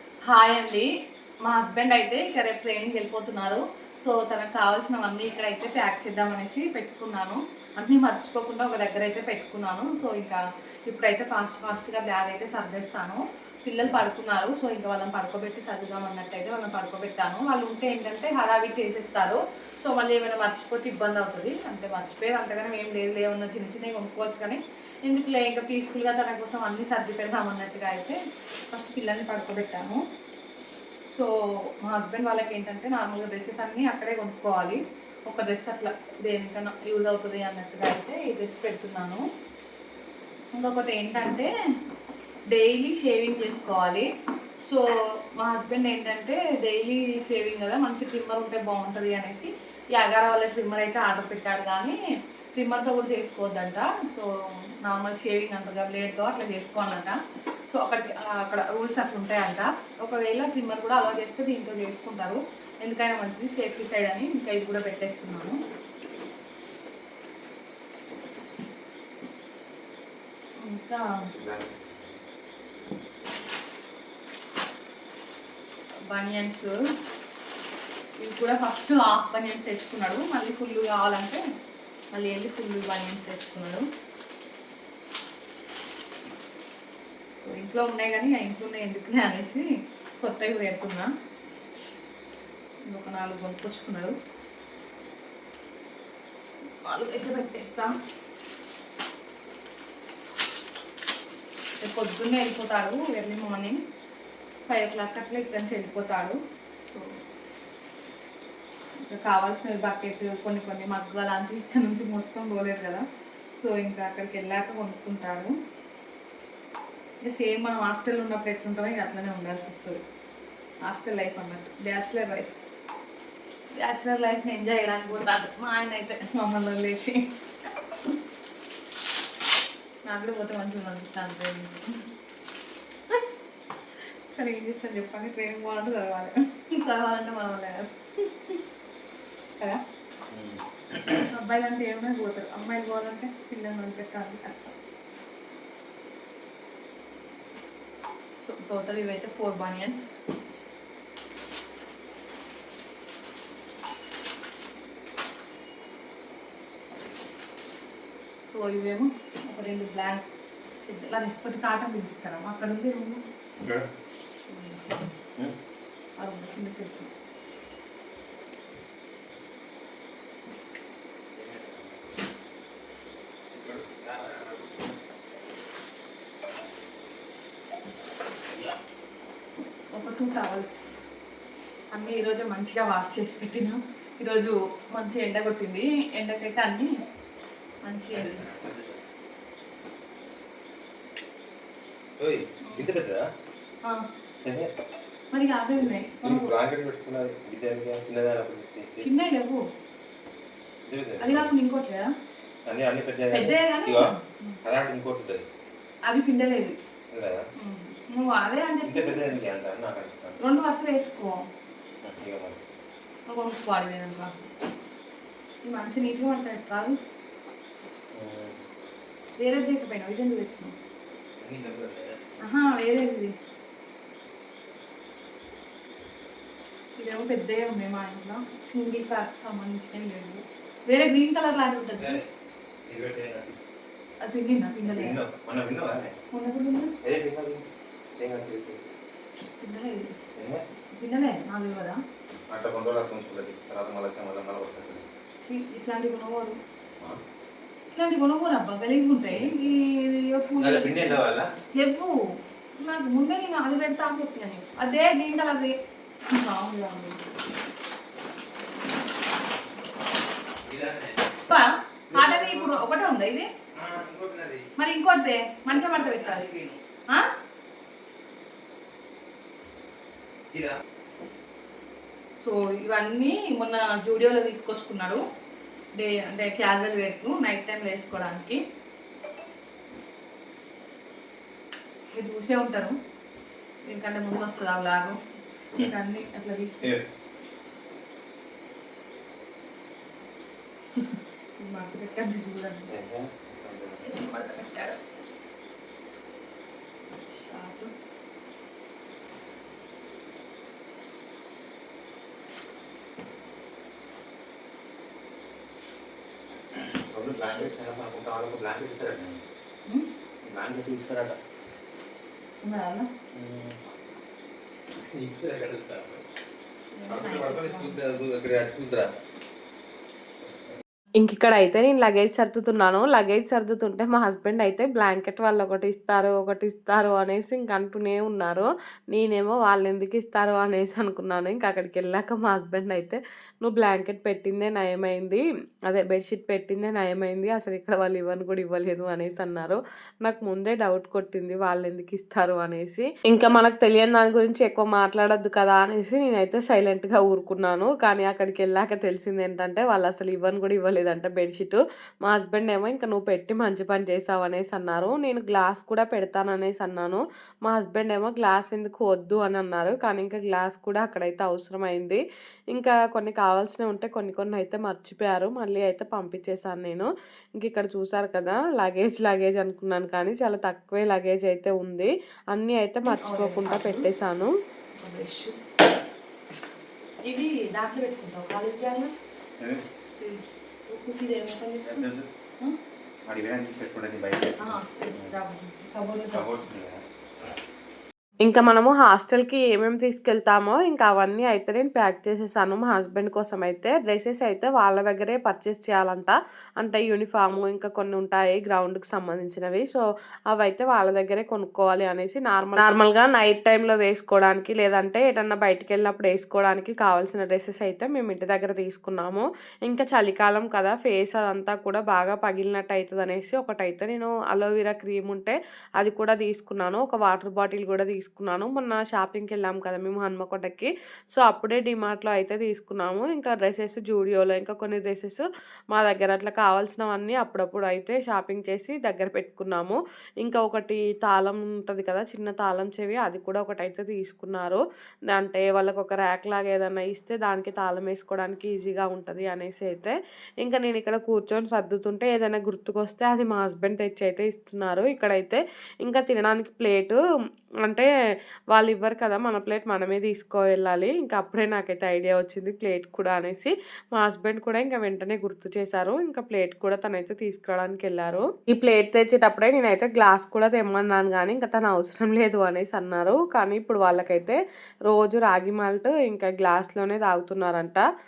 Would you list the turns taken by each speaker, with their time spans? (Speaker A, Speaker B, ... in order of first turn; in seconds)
Speaker A: 0.3-0.9, 1.4-28.2, 28.7-30.0, 31.8-39.2, 40.5-41.5, 42.5-44.1, 45.4-52.0, 52.5-54.3, 54.8-57.2, 57.7-65.6, 70.6-71.2, 76.1-76.7, 78.2-81.4, 82.1-83.8, 87.4-89.6, 90.2-91.1, 92.9-94.1, 96.8-98.0, 101.8-103.8, 104.7-107.0, 109.1-113.0, 113.6-115.5, 117.3-120.0, 120.8-122.5, 123.8-128.2, 130.1-131.9, 134.3-138.6, 141.3-144.7, 148.4-150.0, 158.5-160.2, 160.8-163.2, 164.5-164.9, 166.2-167.1, 179.9-180.9, 181.9-186.9, 187.9-188.4, 195.3-196.5, 199.0-199.6, 201.2-202.1, 203.3-204.6, 206.1-206.7, 207.6-209.3, 210.4-211.4, 213.3-214.3, 215.7-217.0, 219.4-220.7, 222.4-223.3, 227.0-232.2, 234.3-235.2, 236.3-236.9, 239.6-240.1, 240.9-242.0, 245.4-246.6, 247.9-251.2, 251.8-252.1, 252.8-255.7, 256.4-257.2, 261.5-263.5, 264.8-266.5, 272.4-275.2, 276.0-278.6, 282.1-282.9, 283.9-285.2, 285.8-286.9, 291.0-292.9, 294.0-295.0, 297.3-297.9, 307.4-307.9, 312.6-313.1, 316.9-318.1, 373.1-374.1, 375.0-375.6, 377.3-379.1, 380.2-382.1, 384.6-386.5
Speaker B: 71.2-72.2, 140.3-141.3, 163.6-163.9, 171.4-172.1, 173.5-175.0, 188.1-189.1, 192.2-193.2, 195.8-199.0, 200.9-201.5, 202.7-204.1, 204.6-205.4, 207.1-207.4, 208.8-210.4, 212.0-212.6, 218.1-218.6, 221.4-222.2, 232.0-232.2, 232.9-233.6, 234.8-236.1, 237.1-237.6, 238.2-238.9, 242.5-245.1, 249.3-249.6, 250.6-251.5, 260.6-261.3, 262.1-262.8, 263.8-264.7, 265.7-266.8, 292.9-294.1, 306.8-309.4, 310.5-311.4, 313.3-313.8, 315.0-316.2, 317.1-319.2, 381.8-382.2, 383.3-385.4, 386.3-387.0
Speaker C: 321.2-362.2, 362.7-374.5, 388.4-434.8, 435.3-447.2, 448.7-464.6, 465.1-468.0